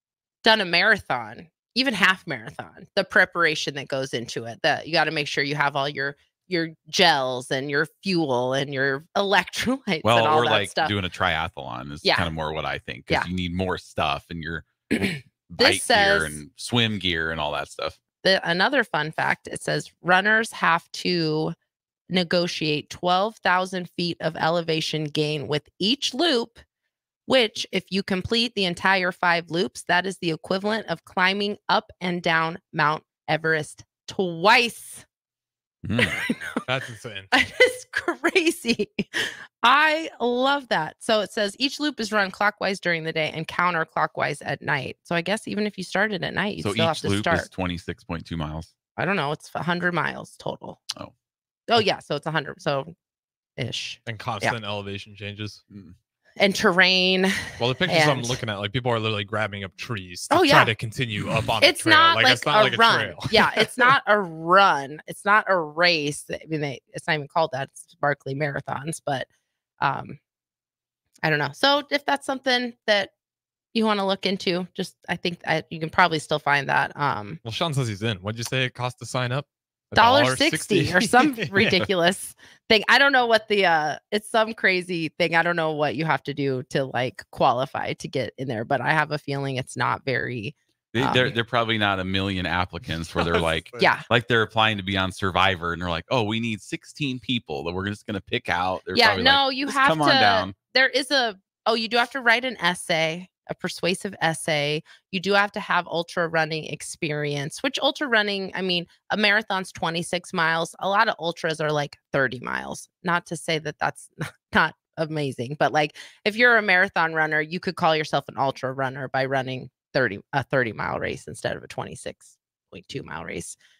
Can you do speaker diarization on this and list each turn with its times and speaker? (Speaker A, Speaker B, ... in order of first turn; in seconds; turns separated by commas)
Speaker A: 0.4-10.9, Speaker B: 10.0-14.7, Speaker A: 12.0-12.3, Speaker A: 14.9-16.4, Speaker B: 15.5-18.0, Speaker A: 18.2-21.6, Speaker A: 22.1-26.6, Speaker A: 27.3-35.0, Speaker B: 35.8-36.2, Speaker C: 36.7-37.3, Speaker A: 37.3-47.5, Speaker B: 46.6-48.7, Speaker A: 49.0-50.8, Speaker A: 51.7-52.9, Speaker A: 53.6-54.5, Speaker C: 54.1-55.6, Speaker B: 55.7-56.0, Speaker A: 56.4-58.4, Speaker C: 57.6-63.9, Speaker A: 60.3-60.7, Speaker A: 61.6-69.3, Speaker A: 69.8-70.2, Speaker A: 71.2-73.1, Speaker A: 73.7-77.4, Speaker C: 77.4-81.8, Speaker A: 80.0-91.3, Speaker B: 90.9-100.5, Speaker A: 93.8-94.0, Speaker A: 99.0-123.6